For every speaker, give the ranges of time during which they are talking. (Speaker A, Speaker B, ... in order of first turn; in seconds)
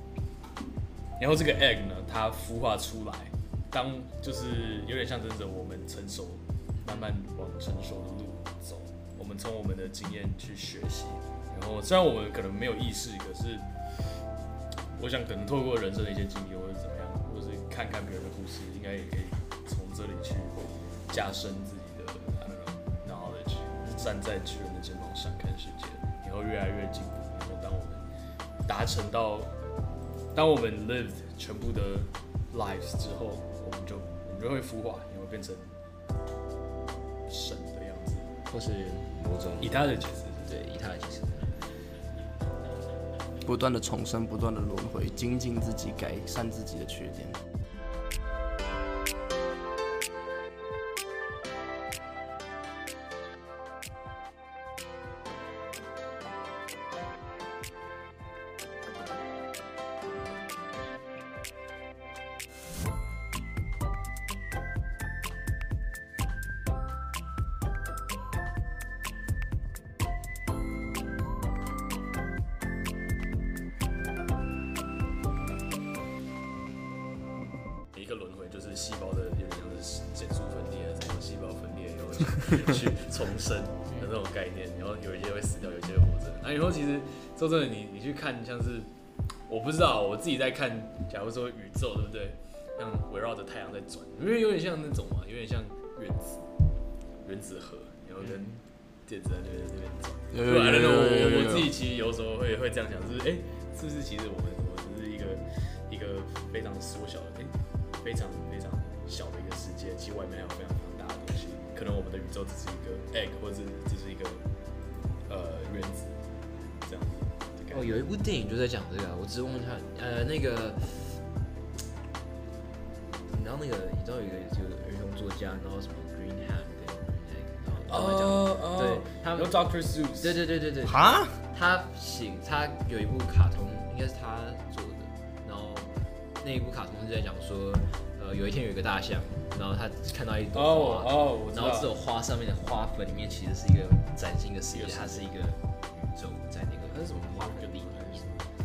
Speaker A: 1.2-13.7, 14.9-28.1, 28.7-29.5, 30.3-35.8, 37.3-38.3, 39.6-40.5, 77.9-88.9, 89.5-96.4, 97.2-114.4, 115.3-116.1, 116.8-117.9, 127.9-130.4, 140.5-141.9, 144.7-145.3, 146.9-148.5
Speaker B: 6.8-7.1, 38.5-41.5, 98.2-98.6, 117.7-121.2, 123.3-129.6, 130.2-148.3
Speaker C: 43.4-47.4, 100.3-101.7, 130.8-131.4